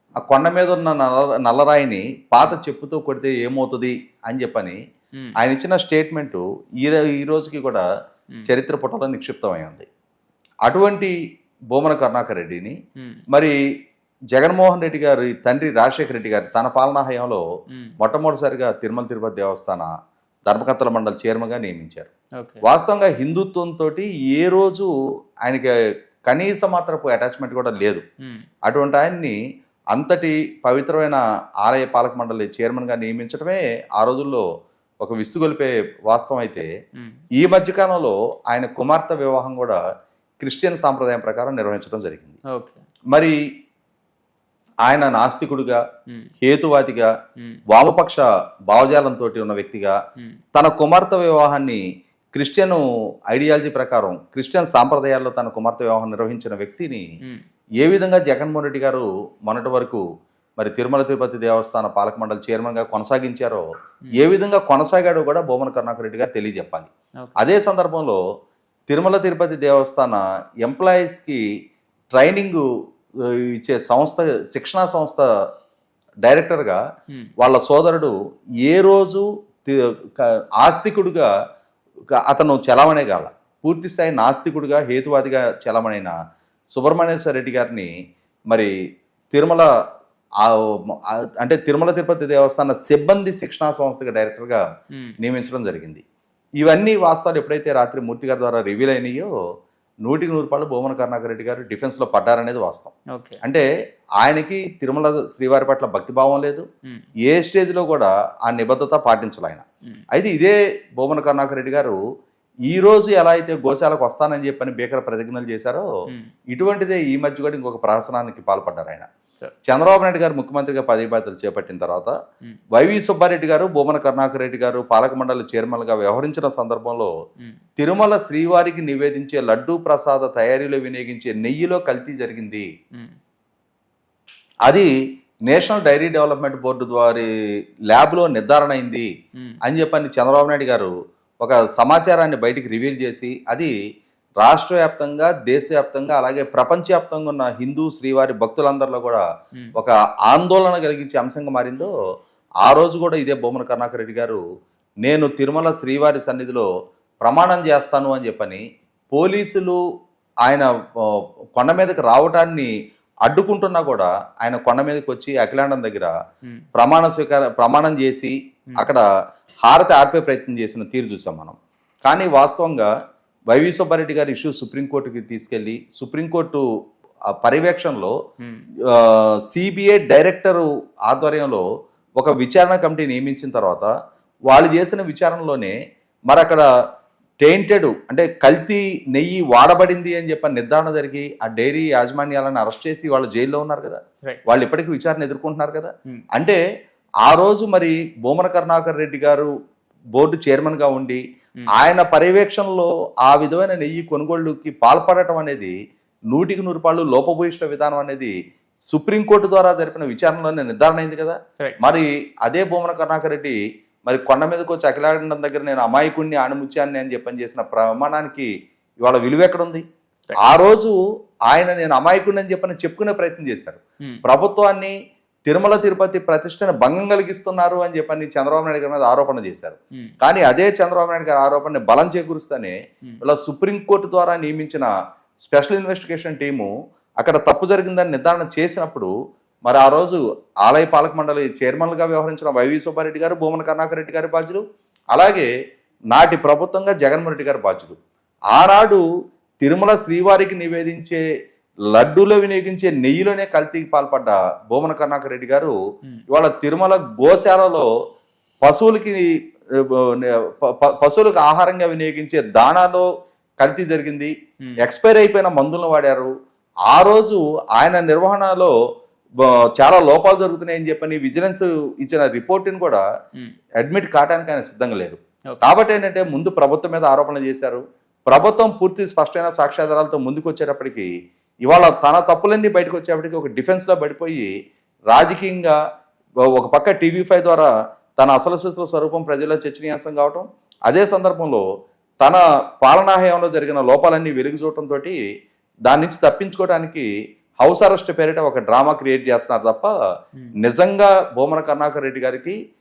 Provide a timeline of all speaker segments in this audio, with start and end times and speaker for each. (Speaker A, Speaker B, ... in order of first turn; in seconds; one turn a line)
Speaker A: 0.2-4.8
Speaker A: 5.4-7.8
Speaker A: 8.5-9.9
Speaker A: 10.7-11.2
Speaker A: 11.7-12.8
Speaker B: 13.0-13.2
Speaker A: 13.3-13.6
Speaker A: 14.3-17.4
Speaker B: 17.7-18.0
Speaker A: 18.0-19.9
Speaker A: 20.5-22.1
Speaker A: 22.6-24.9
Speaker A: 26.3-28.0
Speaker A: 28.7-29.4
Speaker A: 29.9-34.5
Speaker A: 35.0-36.7
Speaker B: 37.0-37.2
Speaker A: 37.4-39.8
Speaker A: 40.4-42.4
Speaker B: 42.5-42.8
Speaker A: 44.9-45.8
Speaker A: 46.4-47.1
Speaker A: 47.7-50.0
Speaker A: 50.5-51.8
Speaker A: 52.4-57.1
Speaker A: 57.8-60.0
Speaker A: 60.6-68.2
Speaker A: 68.9-71.4
Speaker A: 72.1-72.7
Speaker A: 73.2-75.3
Speaker A: 76.2-76.8
Speaker A: 77.4-78.1
Speaker A: 78.7-81.3
Speaker A: 82.3-86.1
Speaker A: 86.7-87.9
Speaker A: 89.3-89.7
Speaker A: 90.4-94.6
Speaker A: 95.2-96.0
Speaker A: 96.6-99.3
Speaker A: 100.1-103.6
Speaker B: 103.1-103.4
Speaker A: 104.2-106.7
Speaker A: 107.3-112.0
Speaker A: 112.7-115.9
Speaker A: 116.5-119.1
Speaker A: 119.7-122.1
Speaker A: 122.7-127.1
Speaker A: 127.8-132.7
Speaker A: 135.5-137.3
Speaker A: 137.9-139.1
Speaker A: 139.6-143.7
Speaker A: 144.4-149.2
Speaker A: 149.8-151.9
Speaker A: 152.6-154.4
Speaker A: 155.0-156.7
Speaker A: 157.2-159.8
Speaker A: 160.4-162.7
Speaker A: 163.3-166.1
Speaker A: 166.8-169.0
Speaker A: 169.7-172.9
Speaker A: 173.5-176.6
Speaker A: 177.4-178.1
Speaker B: 178.4-178.7
Speaker A: 178.9-181.6
Speaker A: 182.2-183.9
Speaker A: 184.5-185.8
Speaker A: 186.3-186.6
Speaker A: 187.4-196.6
Speaker A: 197.2-199.5
Speaker A: 200.2-201.2
Speaker A: 201.8-205.7
Speaker A: 206.3-208.3
Speaker A: 208.9-218.5
Speaker A: 219.0-219.8
Speaker A: 220.4-221.0
Speaker A: 221.5-224.9
Speaker A: 225.5-234.9
Speaker A: 235.4-239.1
Speaker A: 239.7-245.5
Speaker A: 246.1-248.0
Speaker A: 248.5-249.0
Speaker A: 249.6-251.2
Speaker A: 251.9-255.8
Speaker A: 256.3-257.9
Speaker A: 258.6-259.3
Speaker A: 259.8-263.1
Speaker A: 263.6-266.3
Speaker A: 266.9-268.7
Speaker A: 269.4-273.0
Speaker A: 273.8-281.1
Speaker B: 275.5-275.7
Speaker A: 281.7-284.5
Speaker A: 285.1-285.8
Speaker A: 286.5-291.6
Speaker A: 292.2-295.2
Speaker A: 295.9-297.1
Speaker A: 297.6-299.9
Speaker A: 300.6-302.6